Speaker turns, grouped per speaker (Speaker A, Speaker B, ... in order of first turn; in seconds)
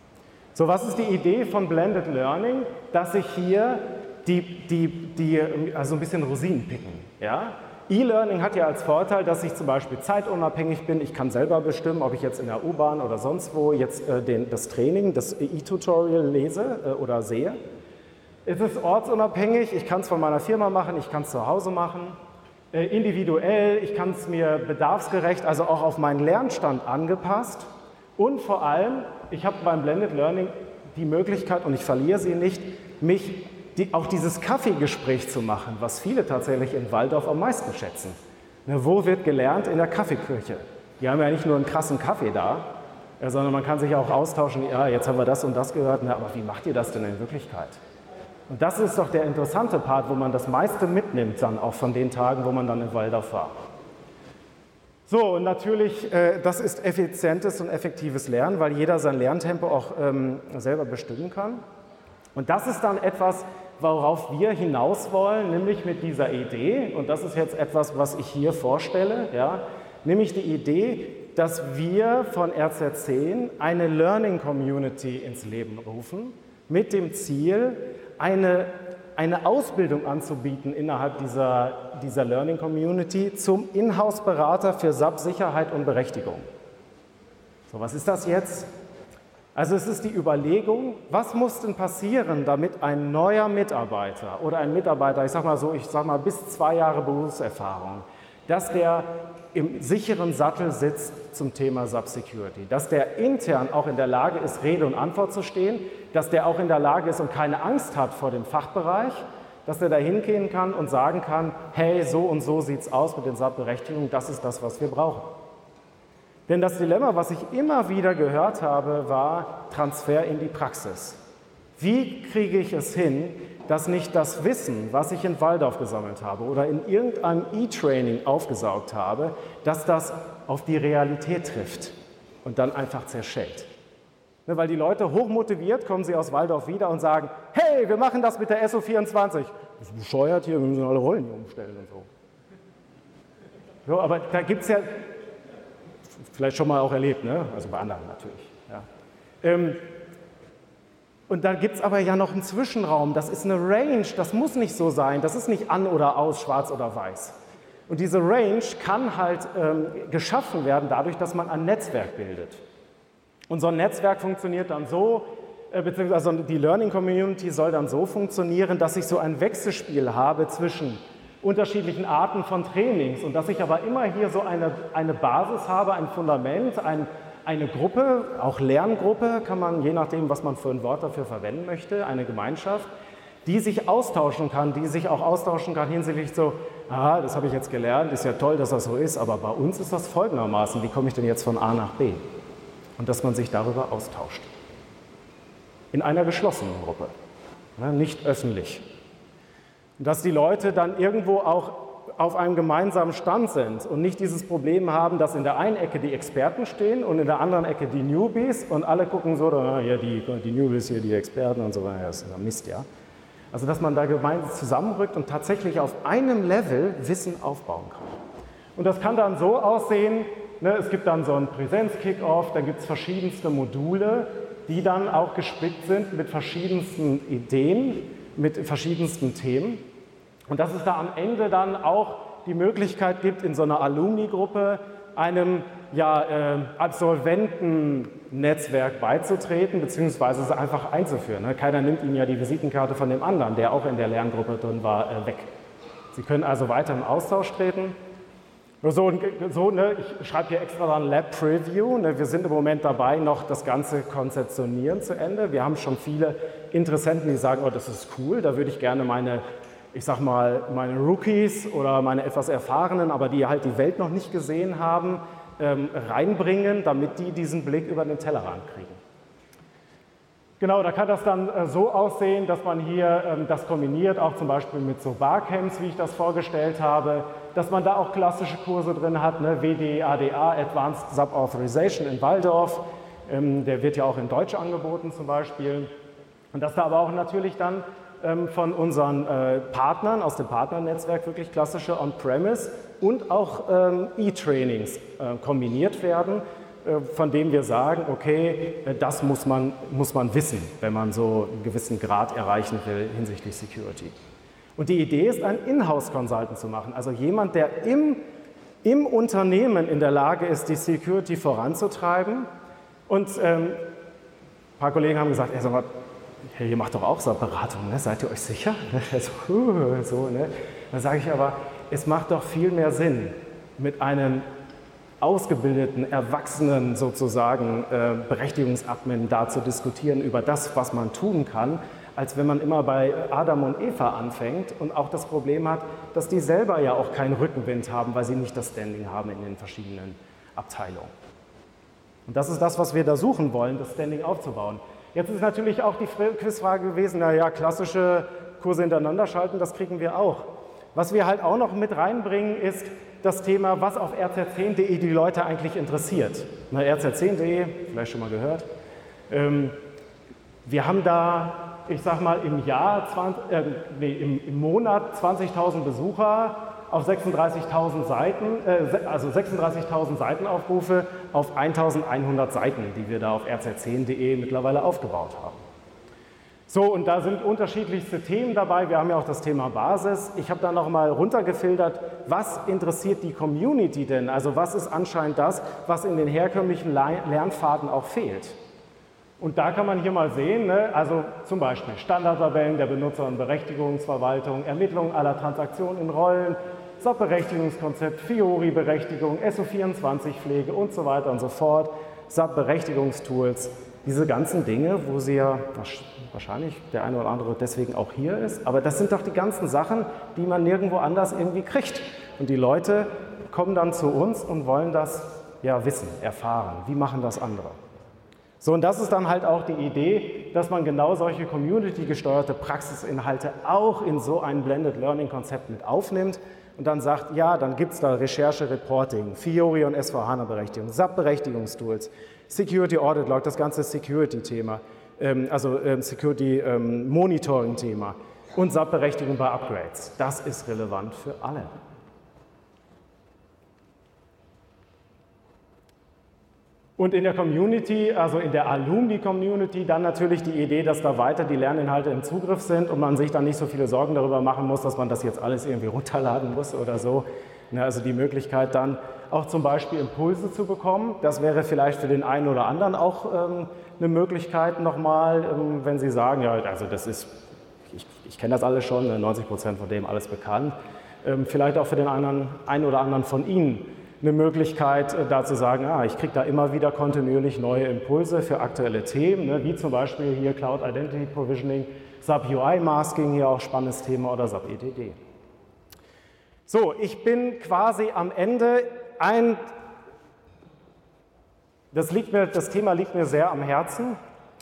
Speaker A: 0.6-17.6, 18.5-22.2, 22.7-42.6, 43.2-47.8, 48.5-53.5, 55.1-61.6, 62.4-86.5, 87.7-88.7, 89.5-115.4, 116.5-121.2, 121.8-133.7, 134.5-142.1, 143.9-145.0, 146.3-148.8, 149.4-149.8, 151.3-157.3, 157.9-162.6, 163.5-182.9, 183.4-192.2, 193.0-194.5, 195.9-197.1, 197.8-198.8, 200.0-212.8, 213.5-218.2, 218.8-229.8, 230.5-245.5, 246.1-247.9, 248.8-269.0, 270.6-285.9, 286.5-304.1, 304.8-308.2, 308.8-312.5, 313.1-313.8, 314.8-315.9, 316.4-324.4, 325.2-341.1, 342.3-358.7, 359.3-359.8, 360.6-375.6, 376.7-388.6, 389.4-417.8, 418.6-441.7, 447.0-467.4, 467.9-485.2, 486.7-489.6, 491.9-494.2